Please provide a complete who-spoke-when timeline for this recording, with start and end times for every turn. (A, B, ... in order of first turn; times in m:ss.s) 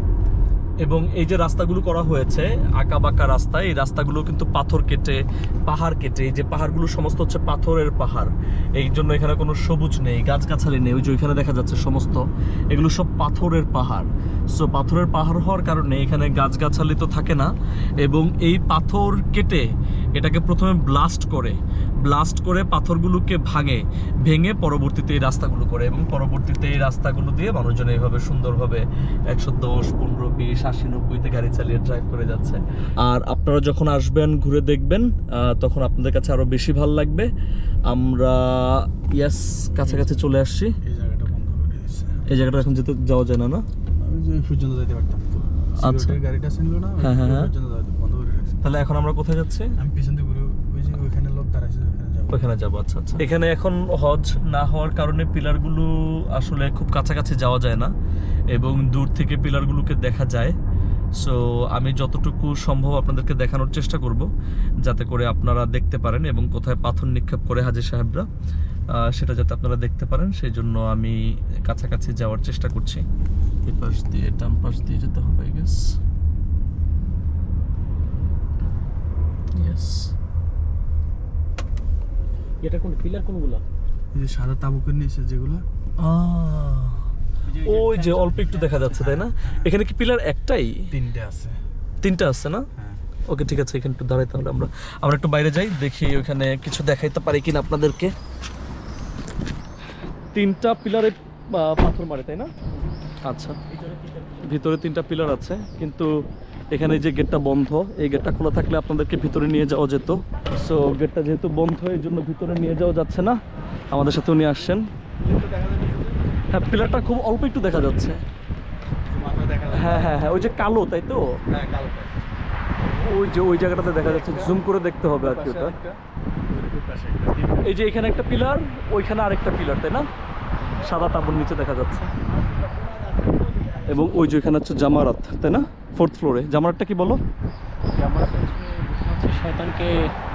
0:00.8-0:37.3 A
0:37.9-0:40.8 A
0:39.8-0:42.3 B
0:42.3-0:43.6 A
0:44.0-0:48.8 B
0:45.8-0:46.2 A
0:47.0-0:47.5 A
0:48.6-0:49.7 A
0:49.8-0:52.4 B
0:52.3-0:57.9 A
0:58.5-1:00.6 A
1:01.2-1:04.3 A
1:04.8-1:08.3 A
1:08.9-1:13.0 A
1:13.6-1:15.9 A
1:19.6-1:20.1 A
1:22.6-1:23.6 C
1:24.1-1:25.6 B
1:26.0-1:27.0 A
1:27.5-1:29.1 C
1:27.6-1:30.9 A
1:29.2-1:29.7 B
1:30.9-1:31.6 B
1:32.0-1:32.7 A
1:32.8-1:33.0 B
1:33.3-1:38.1 A
1:40.3-1:42.5 A
1:43.3-1:43.6 A
1:44.4-1:46.1 A
1:46.7-1:53.4 A
1:53.9-1:54.9 A
1:55.2-1:56.1 B
1:56.5-1:58.2 A
1:59.1-2:00.4 B
1:59.7-2:01.5 A
2:01.5-2:02.2 B
2:02.9-2:05.8 A
2:03.9-2:04.6 B
2:05.2-2:07.7 B
2:07.6-2:10.1 A
2:10.8-2:12.1 A
2:13.9-2:17.2 A
2:17.9-2:20.1 C